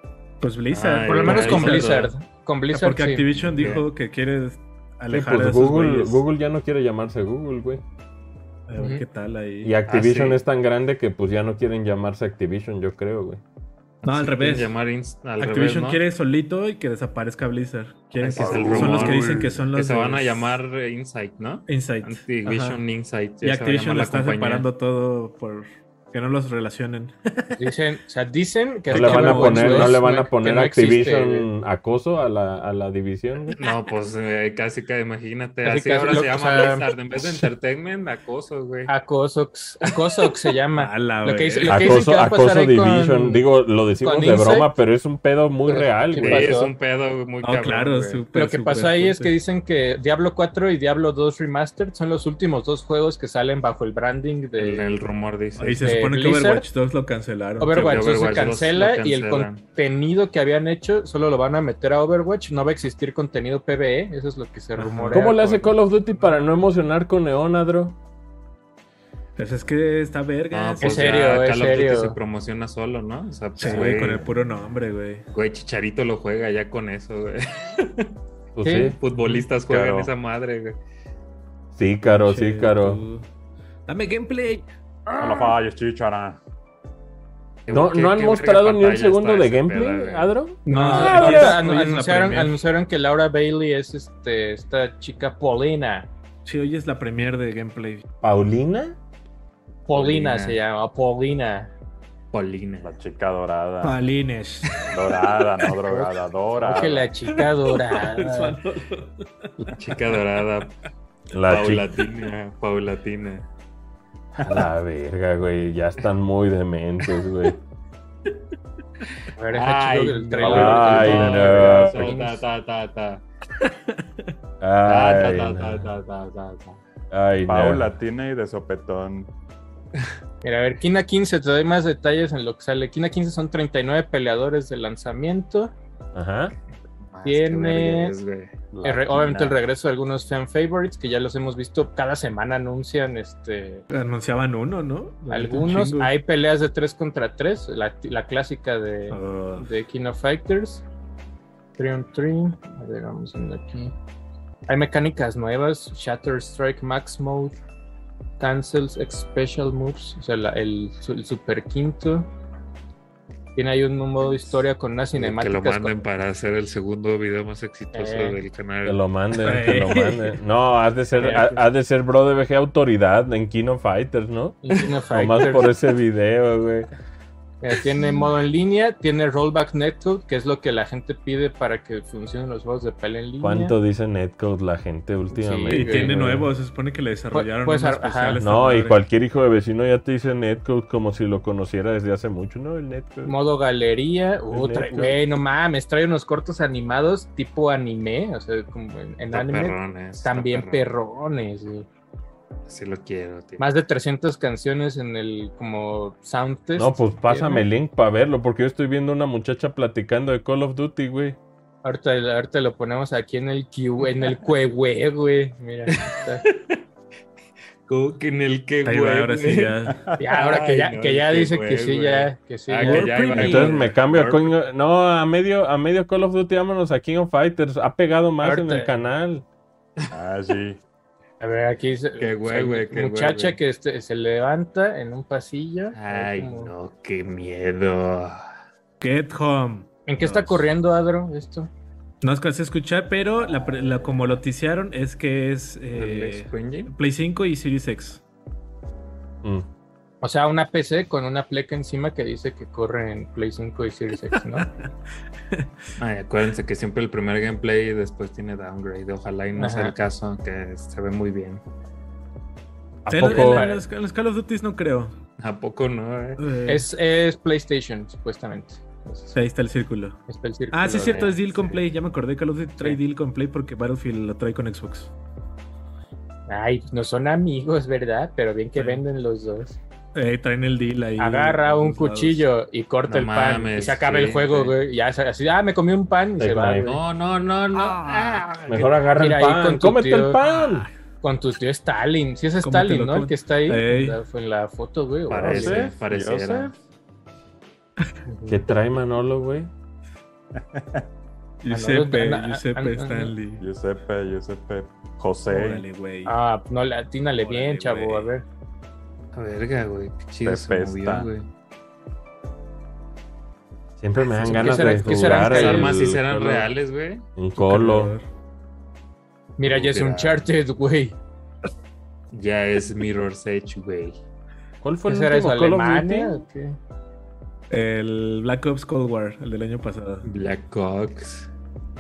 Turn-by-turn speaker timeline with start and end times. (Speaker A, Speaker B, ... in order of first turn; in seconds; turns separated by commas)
Speaker A: 0.4-2.0, Speaker B: 0.7-2.1, Speaker C: 1.1-3.4, Speaker A: 2.7-6.2, Speaker B: 3.4-3.9, Speaker D: 5.1-7.8, Speaker A: 8.7-9.8, Speaker C: 8.8-9.0, Speaker D: 9.6-13.4, Speaker B: 9.9-10.4, Speaker A: 14.0-14.8, Speaker B: 14.1-16.0, Speaker A: 15.4-20.6, Speaker B: 18.2-24.7, Speaker E: 18.3-19.6, Speaker A: 21.7-22.8, Speaker A: 23.4-27.7, Speaker C: 27.6-31.5, Speaker D: 28.9-33.6, Speaker A: 28.9-30.0, Speaker B: 33.6-38.9, Speaker C: 35.6-36.9, Speaker C: 38.9-43.4, Speaker A: 40.7-42.1, Speaker D: 41.7-46.6, Speaker C: 44.0-44.7, Speaker C: 45.7-46.7, Speaker B: 46.2-48.2, Speaker A: 47.4-49.4, Speaker C: 48.3-54.9, Speaker B: 54.6-56.0, Speaker A: 55.6-58.1, Speaker C: 55.8-56.7, Speaker C: 57.6-65.7, Speaker B: 57.7-59.6, Speaker A: 64.8-65.4, Speaker D: 65.1-68.0, Speaker A: 69.4-71.2, Speaker B: 70.5-74.3, Speaker C: 70.8-72.2, Speaker A: 73.6-75.2, Speaker B: 75.3-78.1, Speaker D: 78.5-79.0, Speaker C: 78.6-79.0, Speaker B: 79.0-80.8, Speaker E: 79.6-80.1, Speaker D: 81.7-83.0, Speaker A: 82.1-83.3, Speaker A: 83.9-84.7, Speaker E: 85.2-86.4, Speaker B: 87.7-90.3, Speaker D: 87.7-91.6, Speaker C: 90.7-96.1, Speaker A: 90.7-92.6, Speaker A: 96.5-98.0, Speaker D: 98.2-99.0, Speaker C: 99.9-101.7, Speaker B: 99.9-100.6, Speaker B: 102.3-102.9, Speaker E: 102.8-104.0, Speaker A: 103.8-104.9, Speaker E: 104.9-107.4, Speaker C: 105.9-108.6, Speaker A: 107.3-109.8, Speaker B: 109.8-110.7, Speaker D: 111.3-111.9, Speaker B: 111.5-113.5, Speaker D: 114.4-117.6, Speaker C: 119.4-122.5, Speaker B: 119.5-123.2, Speaker E: 120.4-121.6, Speaker D: 120.5-122.2, Speaker A: 123.6-124.3, Speaker D: 124.6-125.9, Speaker B: 124.8-126.8, Speaker D: 127.1-127.9, Speaker E: 127.5-129.3, Speaker C: 130.4-135.7, Speaker D: 136.2-136.5, Speaker B: 137.1-138.5, Speaker C: 137.2-138.2, Speaker E: 138.7-139.6, Speaker C: 138.8-143.9, Speaker A: 143.9-146.1, Speaker C: 145.3-150.8, Speaker A: 149.1-149.7, Speaker C: 151.8-153.9, Speaker C: 154.7-157.6, Speaker C: 158.4-162.3, Speaker C: 163.6-166.0, Speaker B: 165.1-169.0, Speaker C: 167.9-168.4, Speaker D: 168.8-176.9, Speaker A: 169.3-170.4, Speaker A: 171.2-171.6, Speaker C: 174.6-175.7, Speaker C: 177.6-183.8, Speaker D: 183.4-186.5, Speaker C: 185.3-186.2, Speaker A: 185.7-189.0, Speaker C: 187.3-188.4, Speaker D: 188.4-193.4, Speaker C: 193.2-201.9, Speaker A: 194.5-195.2, Speaker B: 199.3-200.9, Speaker B: 202.7-203.6, Speaker C: 203.6-207.7, Speaker D: 206.8-211.4, Speaker C: 211.8-216.4, Speaker B: 216.0-216.8, Speaker B: 217.9-224.5, Speaker A: 218.8-220.1, Speaker C: 220.2-223.5, Speaker A: 222.8-223.9, Speaker D: 223.3-229.5, Speaker C: 228.4-229.0, Speaker E: 230.1-230.8, Speaker C: 231.4-236.7, Speaker B: 232.2-233.6, Speaker B: 235.9-238.4, Speaker A: 239.0-239.9, Speaker C: 240.1-241.7, Speaker B: 240.2-240.6, Speaker A: 242.2-248.2, Speaker B: 245.9-246.9, Speaker C: 250.2-254.7, Speaker A: 254.3-254.9, Speaker A: 255.5-255.9, Speaker B: 256.0-261.6, Speaker C: 259.6-259.9, Speaker D: 263.1-263.7, Speaker A: 263.1-265.2, Speaker C: 263.3-263.9, Speaker B: 265.4-266.5, Speaker A: 266.4-266.9, Speaker C: 266.7-269.4, Speaker A: 269.3-275.1, Speaker C: 270.3-271.8, Speaker B: 271.0-271.7, Speaker C: 276.5-279.8, Speaker A: 278.8-279.1, Speaker A: 280.1-282.5, Speaker C: 281.2-287.0, Speaker B: 283.1-284.8, Speaker D: 286.4-287.0, Speaker B: 286.8-288.9, Speaker A: 287.7-288.9, Speaker D: 288.7-290.9, Speaker C: 289.2-290.4, Speaker A: 290.4-290.9, Speaker C: 291.2-295.9, Speaker A: 292.6-294.2, Speaker B: 295.3-296.8, Speaker E: 295.3-296.8, Speaker C: 298.3-298.6, Speaker D: 298.5-299.7, Speaker E: 300.6-301.1, Speaker A: 301.6-303.6, Speaker C: 301.7-303.3, Speaker E: 303.6-305.9, Speaker A: 305.5-306.4, Speaker C: 306.3-308.4, Speaker A: 307.4-308.3, Speaker B: 309.3-311.5, Speaker E: 310.4-311.3, Speaker D: 314.0-316.7, Speaker A: 314.3-315.6, Speaker C: 314.4-316.0, Speaker B: 315.1-317.3, Speaker D: 317.4-318.1, Speaker A: 317.6-318.3, Speaker C: 319.6-321.2, Speaker B: 319.6-320.4, Speaker B: 322.3-324.2, Speaker D: 324.8-326.4, Speaker C: 325.1-326.8, Speaker A: 327.7-330.3, Speaker B: 330.2-331.5